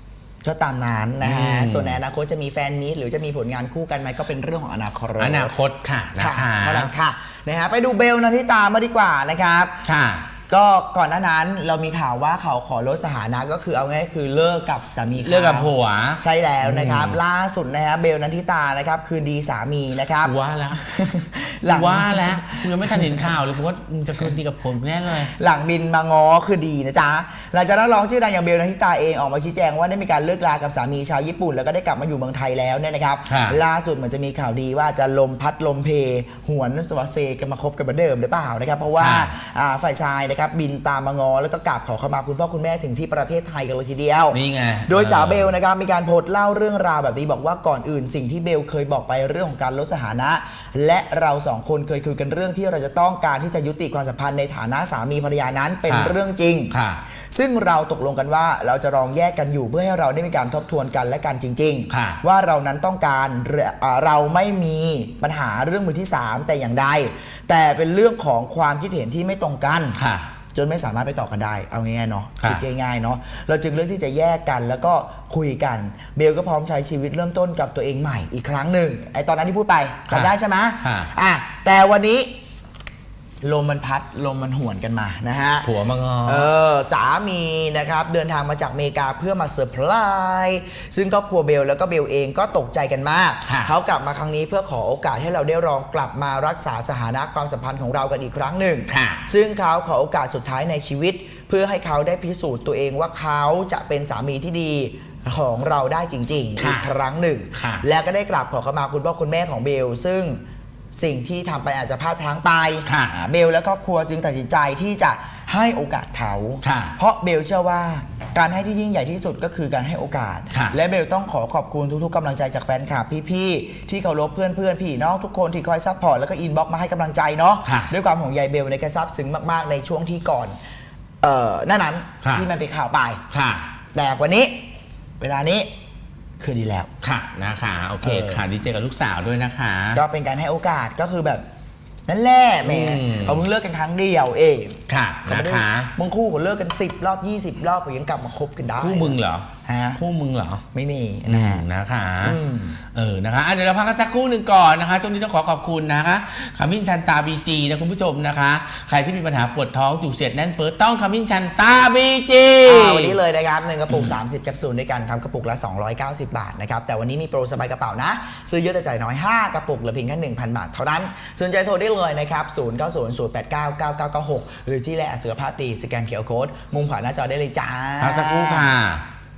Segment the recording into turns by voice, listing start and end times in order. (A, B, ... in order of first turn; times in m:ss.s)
0:00.4-0:05.5 A
0:01.2-0:02.0 B
0:05.2-0:06.9 B
0:06.2-0:09.8 A
0:09.8-0:10.3 B
0:10.5-0:23.3 A
0:15.2-0:17.2 B
0:20.2-0:20.8 B
0:21.6-0:25.3 B
0:25.1-0:56.7 A
0:33.3-0:33.6 B
0:39.0-0:39.3 B
0:44.3-0:45.5 B
0:55.9-0:56.2 B
0:56.7-0:57.0 B
0:57.3-1:10.0 A
1:01.9-1:02.2 B
1:10.0-1:10.3 B
1:10.5-1:22.3 A
1:20.1-1:21.1 B
1:23.4-1:25.7 A
1:25.6-1:26.5 B
1:26.2-1:50.4 A
1:33.4-1:33.7 B
1:38.9-1:39.2 B
1:46.6-1:46.9 B
1:47.5-1:47.8 B
1:50.9-2:10.6 A
1:52.8-1:53.1 B
1:56.6-1:57.0 B
2:00.5-2:00.8 B
2:07.6-2:07.9 B
2:11.2-2:13.2 A
2:12.2-2:12.5 B
2:13.3-2:13.8 B
2:13.9-2:14.6 A
2:15.2-2:15.7 A
2:16.4-2:16.9 A
2:17.0-2:20.0 B
2:18.0-2:18.4 A
2:19.9-2:21.4 A
2:22.1-2:30.0 A
2:22.6-2:23.4 B
2:24.9-2:25.9 B
2:28.8-2:30.6 B
2:30.7-2:31.6 A
2:31.3-2:43.2 B
2:32.2-2:32.8 A
2:42.6-2:58.7 A
2:58.0-2:59.0 B